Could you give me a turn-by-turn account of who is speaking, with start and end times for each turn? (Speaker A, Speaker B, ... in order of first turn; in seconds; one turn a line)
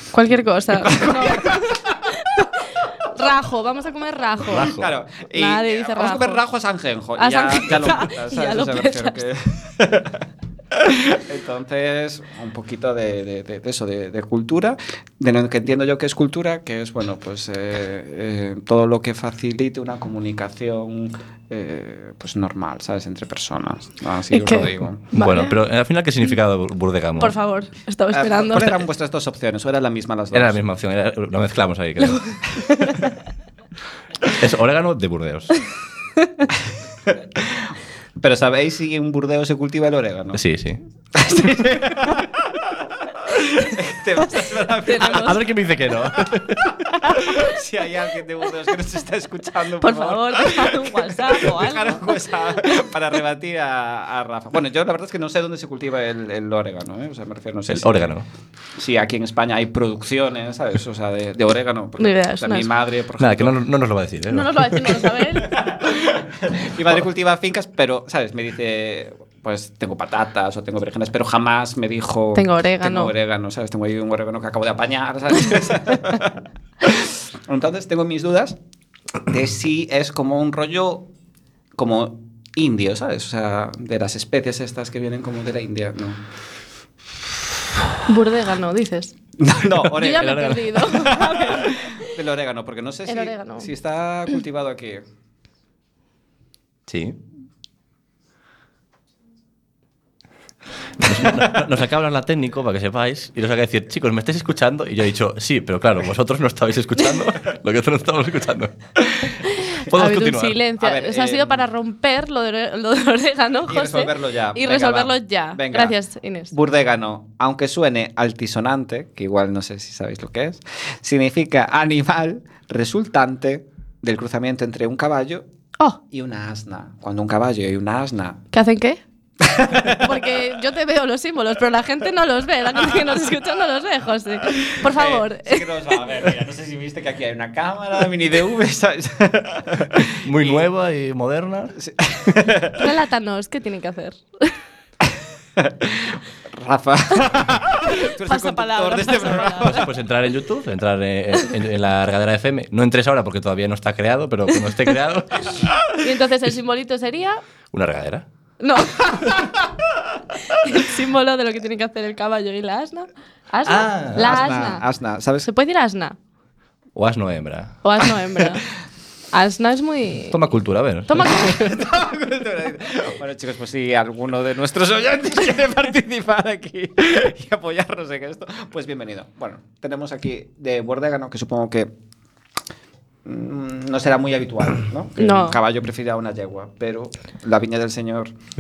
Speaker A: 0.1-4.8
Speaker B: 0.3-2.0
Speaker C: 4.4-4.9
Speaker B: 4.6-10.2
Speaker A: 5.3-6.4
Speaker A: 7.2-9.2
Speaker B: 10.7-25.1
Speaker A: 24.3-25.5
Speaker C: 25.1-27.4
Speaker A: 27.2-28.8
Speaker B: 28.1-30.6
Speaker C: 30.3-32.4
Speaker A: 32.0-33.0
Speaker C: 34.3-35.5
Speaker B: 37.1-40.4
Speaker C: 40.3-40.8
Speaker B: 41.1-45.5
Speaker A: 44.8-45.4
Speaker C: 45.0-46.8
Speaker B: 47.1-58.1
Speaker A: 49.8-52.3
Speaker C: 57.7-58.2
Speaker B: 58.8-63.6
Speaker A: 62.0-62.7
Speaker C: 63.2-65.2
Speaker A: 64.3-65.6
Speaker B: 65.6-78.5
Speaker A: 72.3-73.1
Speaker B: 79.3-81.1
Speaker B: 81.8-86.2
Speaker A: 88.0-89.1
Speaker B: 89.4-95.0
Speaker A: 90.0-92.0
Speaker C: 90.0-90.8
Speaker A: 93.1-93.7
Speaker C: 96.9-97.2
Speaker C: 101.0-108.7
Speaker C: 109.8-110.6
Speaker A: 109.9-116.5
Speaker B: 110.8-111.6
Speaker B: 113.7-116.0
Speaker B: 116.5-125.4
Speaker B: 126.1-128.4
Speaker A: 128.5-129.0
Speaker B: 129.4-130.0
Speaker A: 130.0-136.0
Speaker B: 134.5-140.7
Speaker C: 140.2-141.7
Speaker B: 141.8-142.8
Speaker A: 142.8-144.5
Speaker B: 145.6-149.8
Speaker A: 147.9-149.9
Speaker C: 149.6-155.7
Speaker A: 156.0-157.4
Speaker C: 157.7-158.2
Speaker A: 158.6-159.6
Speaker A: 160.5-164.8
Speaker C: 163.6-164.4
Speaker B: 164.2-165.5
Speaker A: 165.4-166.2
Speaker C: 166.9-167.8
Speaker A: 167.8-168.7
Speaker A: 169.3-170.4
Speaker C: 170.3-171.4
Speaker A: 171.1-171.7
Speaker B: 171.3-181.9
Speaker B: 183.2-188.3
Speaker A: 185.2-185.6